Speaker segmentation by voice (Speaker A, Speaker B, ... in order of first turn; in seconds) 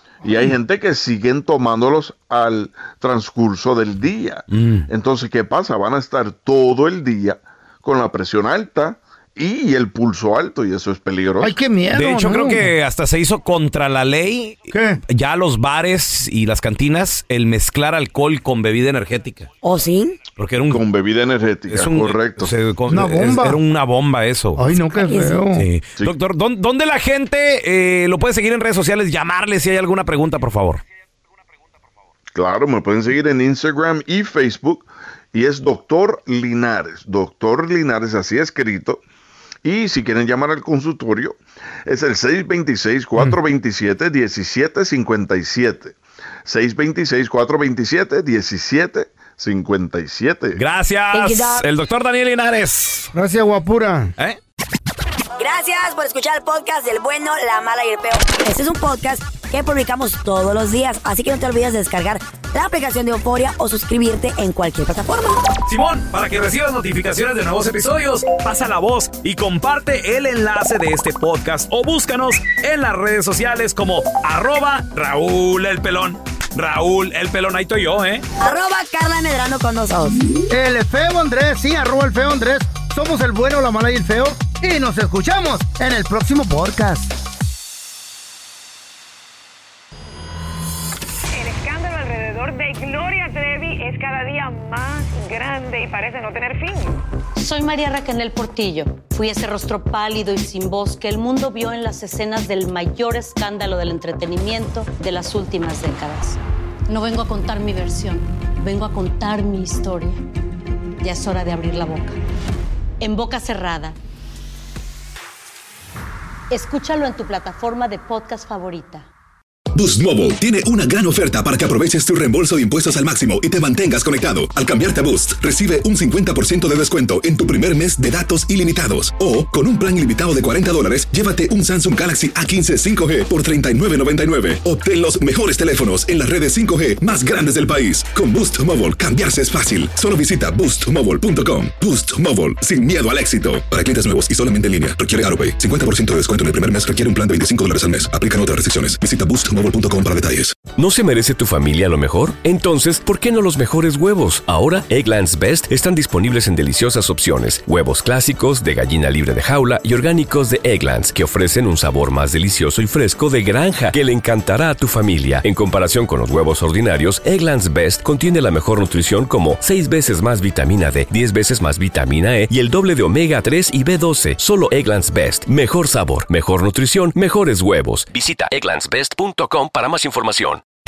Speaker A: 0.2-11.6, 20.7-22.5, 32.3-39.0, 39.6-50.6
Speaker B: 4.5-4.9, 11.9-19.5, 20.4-20.8, 21.7-24.6, 25.6-30.8, 50.6-53.1, 65.7-78.2
Speaker C: 11.4-12.7, 14.7-15.0, 22.9-23.6, 24.6-25.7, 53.1-54.1, 80.5-87.2
Speaker D: 19.6-20.2, 24.9-25.4, 51.1-51.6, 55.4-65.5, 78.4-80.2
Speaker E: 91.3-97.0
Speaker F: 97.4-110.2, 111.0-112.2, 113.0-114.0, 116.5-119.1
Speaker G: 119.7-150.6
Speaker H: 150.8-180.6